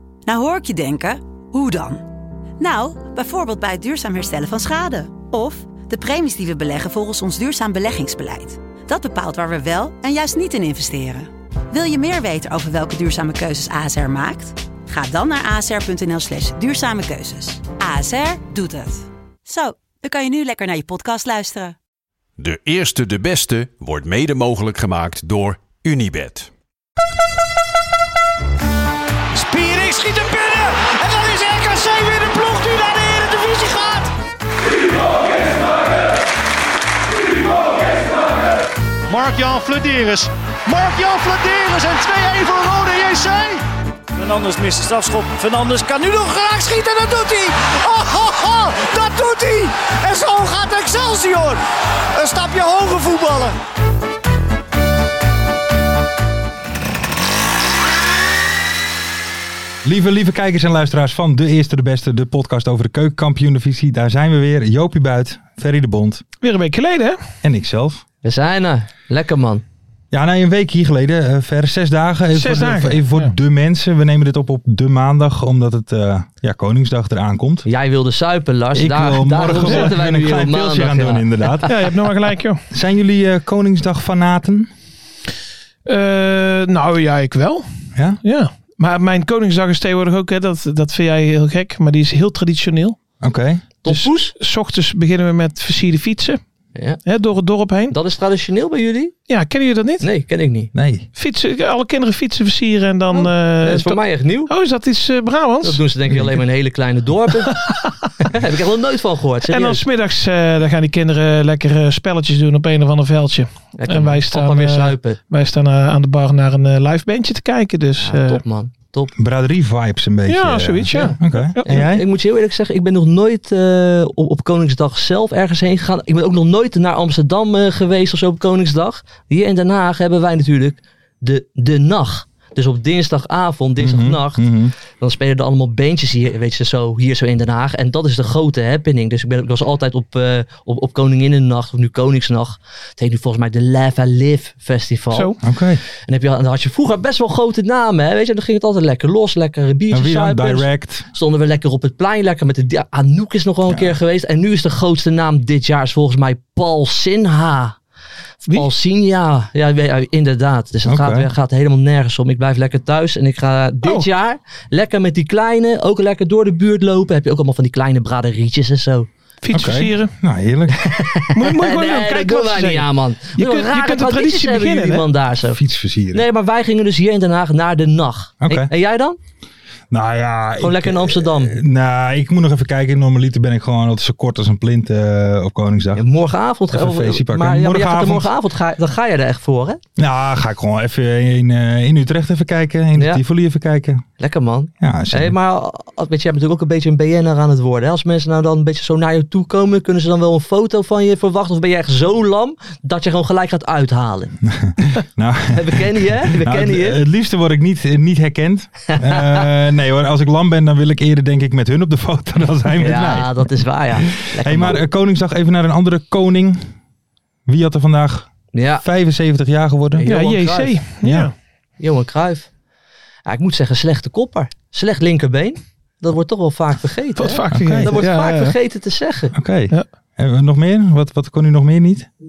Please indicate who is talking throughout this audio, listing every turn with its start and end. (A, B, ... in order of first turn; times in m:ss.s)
0:00.2-0:02.1 A
0:02.6-0:21.8 A
0:22.4-0:26.5 B
0:29.3-0:34.1 C
0:39.1-0:43.6 C
0:44.2-0:51.6 C
0:52.1-0:53.5 C
0:59.8-1:06.2 D
1:06.4-1:07.2 E
1:07.4-1:08.0 D
1:08.2-1:09.6 F
1:10.1-1:17.6 D
1:12.3-1:13.3 E
1:17.6-1:21.5 F
1:18.7-1:21.9 D
1:21.6-1:22.6 E
1:22.7-1:24.7 D
1:25.8-1:27.6 E
1:27.9-1:28.2 D
1:28.2-1:33.0 E
1:33.2-1:33.6 D
1:33.8-1:34.3 F
1:33.9-1:36.4 E
1:36.7-1:37.0 F
1:37.0-1:38.0 E
1:37.9-1:39.2 F
1:39.3-1:40.0 E
1:40.0-1:40.7 F
1:40.7-1:41.1 D
1:41.2-1:45.8 E
1:43.1-1:44.5 F
1:45.6-1:47.6 F
1:48.2-1:49.8 F
1:49.5-1:58.4 E
1:53.8-1:55.2 F
1:58.0-1:59.1 F
1:59.2-2:02.0 D
2:00.3-2:01.8 E
2:00.9-2:14.4 F
2:13.8-2:14.7 D
2:15.0-2:25.3 F
2:25.4-2:25.8 D
2:26.0-2:37.8 F
2:29.9-2:31.1 D
2:38.4-2:49.1 F
2:40.8-2:41.3 D
2:49.4-2:50.1 E
2:49.5-2:50.9 D
2:50.8-2:55.6 F
2:51.3-2:55.0 E
2:55.5-2:56.2 D
2:56.1-2:59.2 F
2:58.4-2:58.7 D
2:59.9-3:06.0 D
3:00.6-3:01.6 F
3:06.0-3:09.8 F
3:06.7-3:08.3 D
3:10.0-3:14.0 D
3:14.2-3:24.4 F
3:14.8-3:15.3 D
3:24.5-3:33.3 D
3:25.5-3:27.0 F
3:28.9-3:29.4 F
3:32.8-3:34.8 F
3:34.4-3:36.7 D
3:37.5-3:38.3 D
3:38.5-3:38.8 F
3:38.8-3:40.1 D
3:39.9-3:40.8 F
3:40.0-3:41.3 E
3:41.0-3:41.3 D
3:41.8-3:42.5 F
3:43.2-3:49.3 F
3:47.2-3:48.6 E
3:47.5-3:47.9 D
3:49.3-3:52.1 D